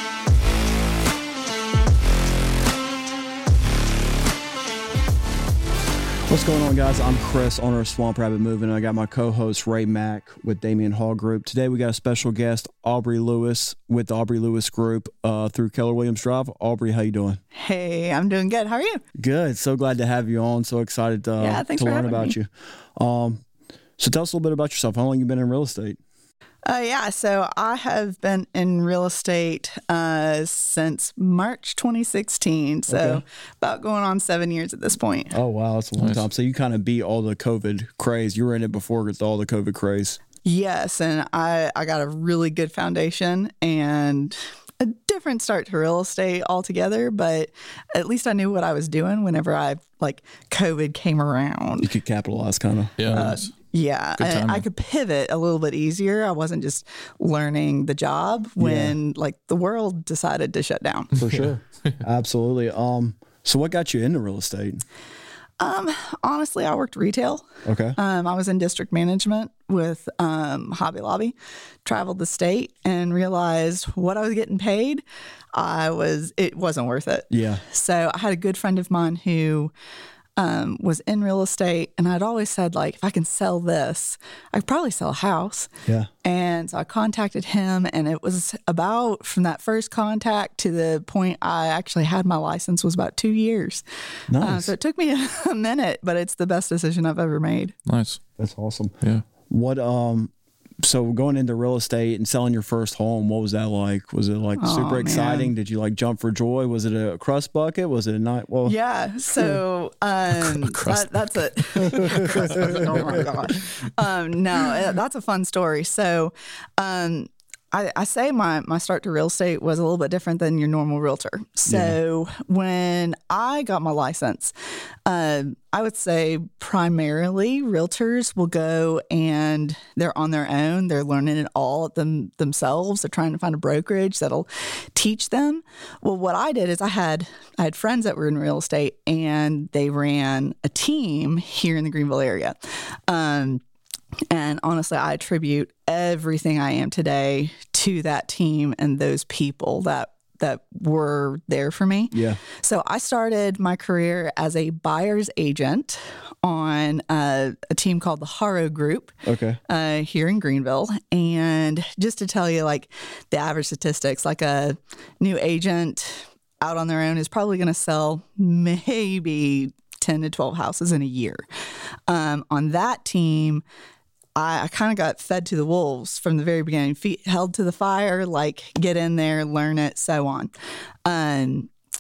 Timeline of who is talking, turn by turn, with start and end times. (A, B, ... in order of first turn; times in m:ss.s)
0:06.3-0:17.4 A
0:17.6-0:19.0 B
0:19.2-0:23.4 A
0:21.4-0:22.4 B
0:24.0-0:26.0 A
0:26.7-0:35.3 B
0:32.9-0:33.2 A
0:35.3-0:40.2 A
0:36.0-0:36.3 C
0:40.4-0:51.9 B
0:51.8-0:53.4 A
0:53.0-0:53.4 C
0:53.1-1:01.1 B
0:54.2-0:54.6 C
0:58.6-0:59.0 A
1:01.2-1:04.8 A
1:01.2-1:02.0 C
1:05.6-1:15.0 B
1:07.6-1:08.0 A
1:15.5-1:19.7 B
1:17.3-1:17.6 A
1:20.4-1:25.7 B
1:26.2-1:33.8 B
1:34.3-1:34.7 A
1:34.4-1:37.7 B
1:37.9-1:38.2 C
1:38.4-1:38.9 A
1:39.5-1:48.8 A
1:44.6-1:45.5 B
1:48.7-2:04.5 B
1:50.3-1:53.7 C
1:52.0-1:53.2 A
2:01.7-2:02.0 A
2:05.1-2:23.6 B
2:24.3-2:39.1 B
2:32.1-2:32.4 A
2:39.2-2:39.6 A
2:39.7-2:51.4 B
2:52.1-2:53.6 B
2:54.4-3:00.5 B
3:01.0-3:01.7 B